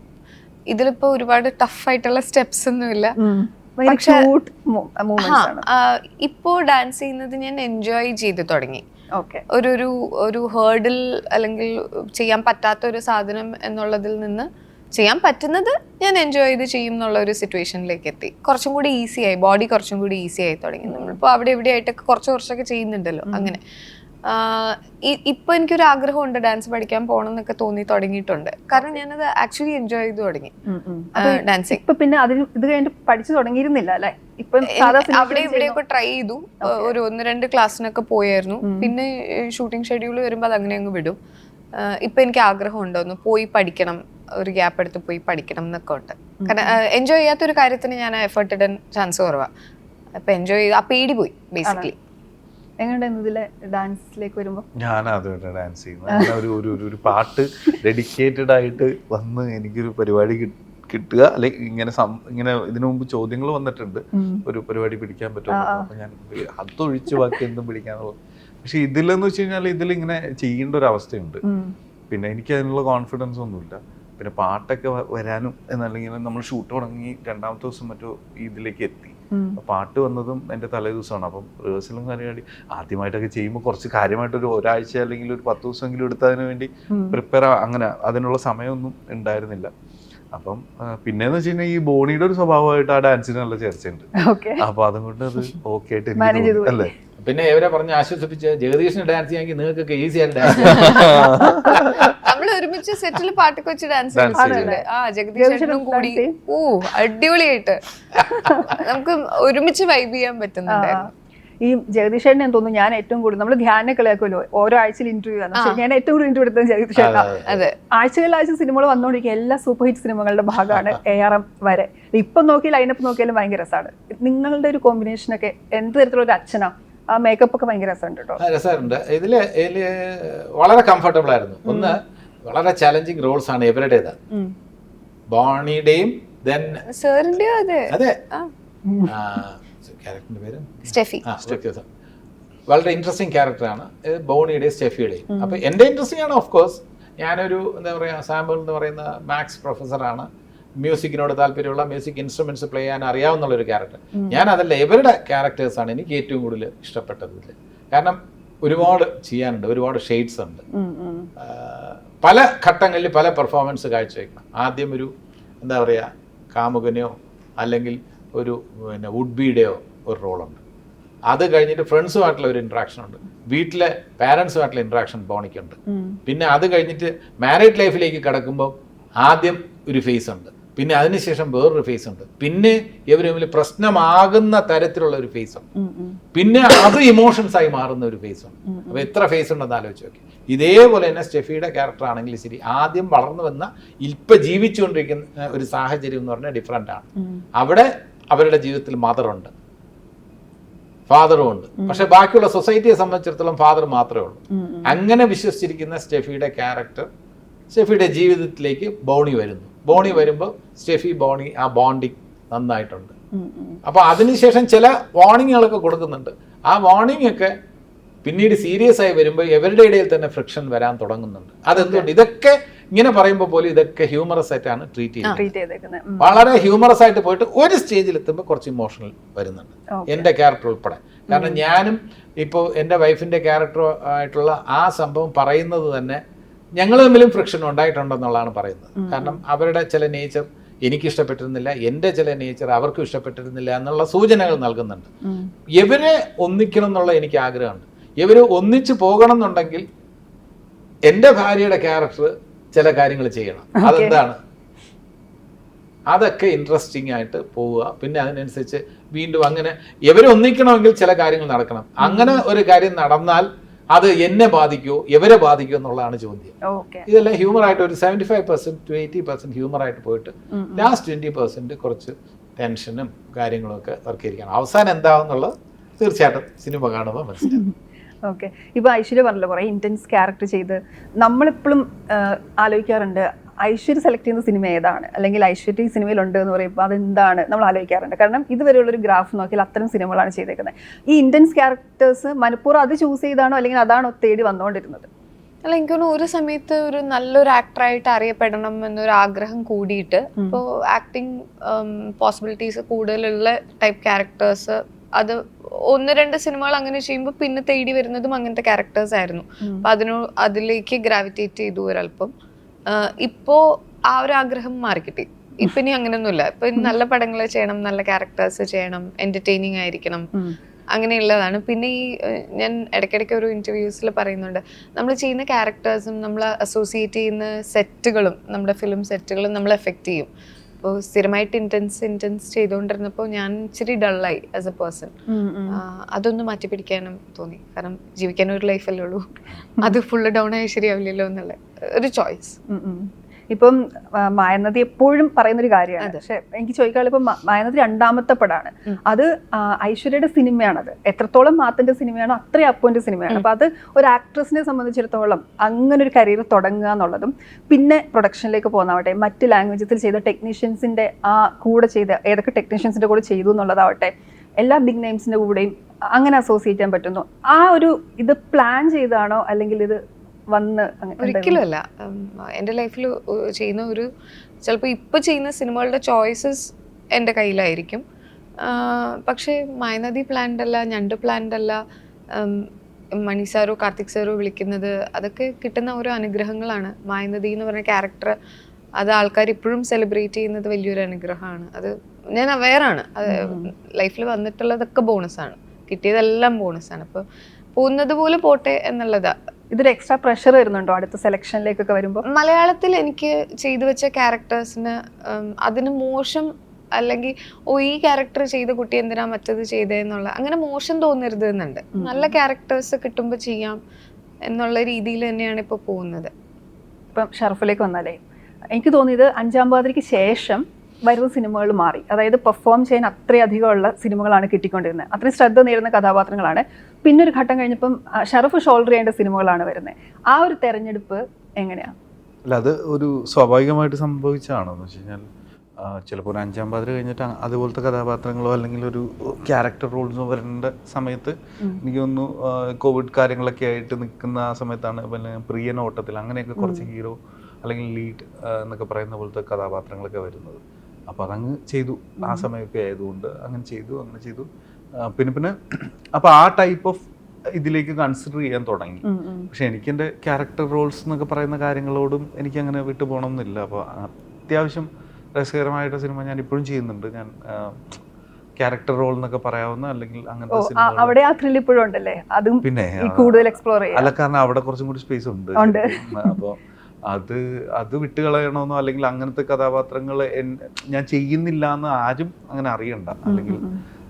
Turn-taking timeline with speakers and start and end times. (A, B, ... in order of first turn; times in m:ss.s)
0:00.7-0:03.2 A
0:03.2-0:05.6 B
0:03.9-0:04.2 A
0:05.2-0:08.8 A
0:09.1-0:09.4 B
0:09.5-0:23.6 A
0:20.8-0:21.2 B
0:23.3-0:23.5 B
0:24.2-0:30.5 A
0:30.6-0:35.8 B
0:31.2-0:31.8 A
0:34.6-0:41.2 A
0:36.6-0:36.9 B
0:38.6-0:38.9 B
0:41.7-0:49.5 A
0:46.4-0:46.8 B
0:50.2-0:52.0 A
0:51.6-0:51.9 B
0:52.8-0:54.7 B
0:54.8-1:11.4 C
0:56.1-0:56.4 B
1:04.1-1:04.4 B
1:05.5-1:05.8 B
1:11.4-1:11.7 B
1:12.1-1:29.7 C
1:19.3-1:19.6 B
1:26.9-1:27.2 B
1:30.3-1:36.9 C
1:34.2-1:34.6 B
1:36.2-1:36.9 B
1:37.2-1:42.1 D
1:40.5-1:42.2 C
1:40.8-1:41.2 A
1:42.2-1:47.8 A
1:44.1-1:44.7 C
1:44.4-1:44.8 B
1:45.4-1:46.3 B
1:48.4-1:51.1 A
1:48.4-1:48.7 B
1:50.7-1:57.3 B
1:55.5-1:55.8 A
1:57.0-1:57.6 D
1:57.4-1:57.8 A
1:57.9-2:08.4 B
2:08.4-2:14.2 D
2:11.6-2:12.0 B
2:15.3-2:16.8 D
2:16.9-2:18.5 A
2:17.9-2:18.2 D
2:18.8-2:19.1 B
2:19.0-2:21.8 D
2:20.8-2:21.2 A
2:22.7-2:30.3 D
2:25.3-2:25.6 B
2:30.8-2:40.6 D
2:34.2-2:34.4 B
2:40.7-2:41.3 B
2:41.4-2:45.1 D
2:45.6-2:50.6 D
2:51.3-3:05.6 D
2:55.9-2:56.2 B
3:05.8-3:06.2 B
3:06.3-3:19.5 D
3:08.7-3:09.1 B
3:21.1-3:27.1 D
3:24.5-3:25.0 B
3:27.7-3:33.1 D
3:29.9-3:30.2 B
3:33.3-3:33.8 B
3:33.8-3:37.5 D
3:38.2-3:45.4 D
3:41.8-3:42.1 B
3:45.3-3:46.4 B
3:46.2-3:56.2 D
3:50.0-3:50.3 B
3:51.3-3:51.6 B
3:56.8-4:05.1 D
3:59.0-3:59.4 B
4:05.2-4:05.5 B
4:05.8-4:09.8 D
4:11.0-4:14.4 D
4:13.8-4:14.2 B
4:16.1-4:37.6 D
4:22.0-4:22.4 B
4:26.7-4:27.1 B
4:30.5-4:30.9 B
4:37.4-4:37.7 B
4:38.2-4:55.1 B
4:55.6-5:12.3 A
5:12.9-5:20.3 A
5:20.9-5:30.3 A
5:30.8-5:35.1 A
5:35.3-5:35.8 B
5:35.7-5:39.2 A
5:39.8-5:42.6 A
5:42.7-6:11.6 B
6:11.2-6:14.1 A
6:14.6-6:18.0 A
6:18.6-6:21.8 A
6:22.3-6:28.3 A
6:29.0-6:37.2 A
6:33.3-6:33.7 B
6:37.8-6:39.3 A
6:39.7-6:42.2 B
6:42.3-6:53.8 A
6:52.0-6:52.3 B
6:54.4-6:56.3 A
6:57.1-6:58.2 B
6:58.7-7:11.9 B
7:12.5-7:15.2 C
7:15.8-7:34.5 C
7:26.6-7:26.9 B
7:35.0-7:48.0 C
7:39.0-7:39.5 B
7:48.6-7:51.2 C
7:50.5-7:54.1 B
7:52.6-8:03.6 C
7:55.6-7:56.4 B
8:03.3-8:03.8 B